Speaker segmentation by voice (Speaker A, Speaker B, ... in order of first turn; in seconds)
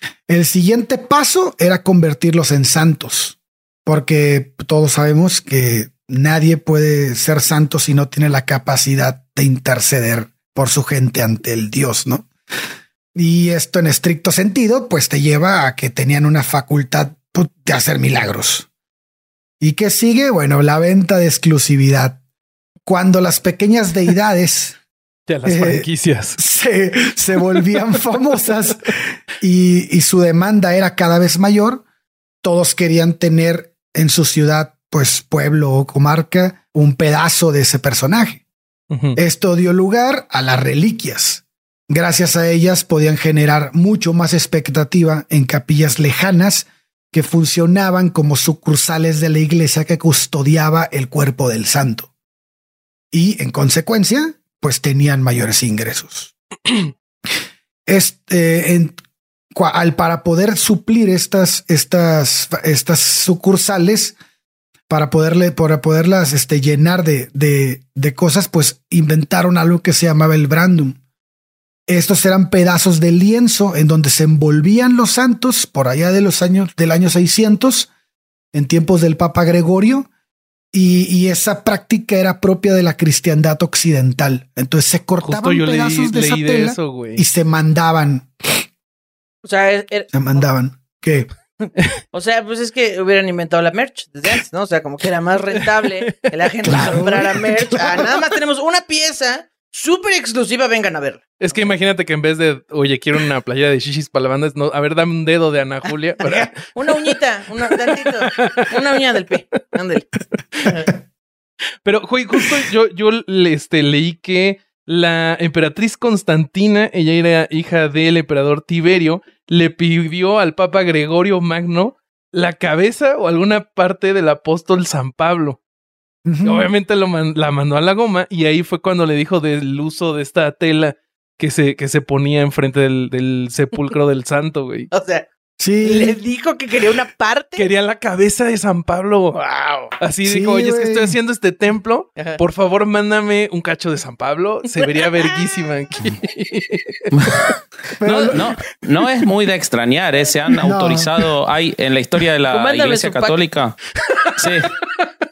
Speaker A: 0.3-12.3, 13.2-18.7, 19.6-22.2, 22.9-24.8, 25.5-31.8, 32.4-38.4, 39.2-52.1, 53.1-56.3, 57.9-59.0, 59.5-64.2, 64.9-71.0, 71.9-77.9, 78.5-80.1, 80.7-88.6, 90.1-91.3, 96.7-97.6, 126.3-126.7, 135.6-136.2, 140.2-141.2, 148.0-148.5, 150.6-151.1
Speaker B: 25.3-26.4, 38.9-39.2, 85.2-87.2, 96.1-97.1, 101.4-107.1, 108.0-108.7, 110.6-110.8, 111.8-125.6, 126.4-134.9, 137.6-139.4, 140.0-147.5
Speaker C: 89.4-90.1, 91.6-101.7, 106.2-110.1, 110.6-110.9, 134.9-135.3, 135.8-137.7, 139.3-139.9, 152.5-153.4
Speaker D: 147.2-147.4, 148.0-153.8, 154.4-154.7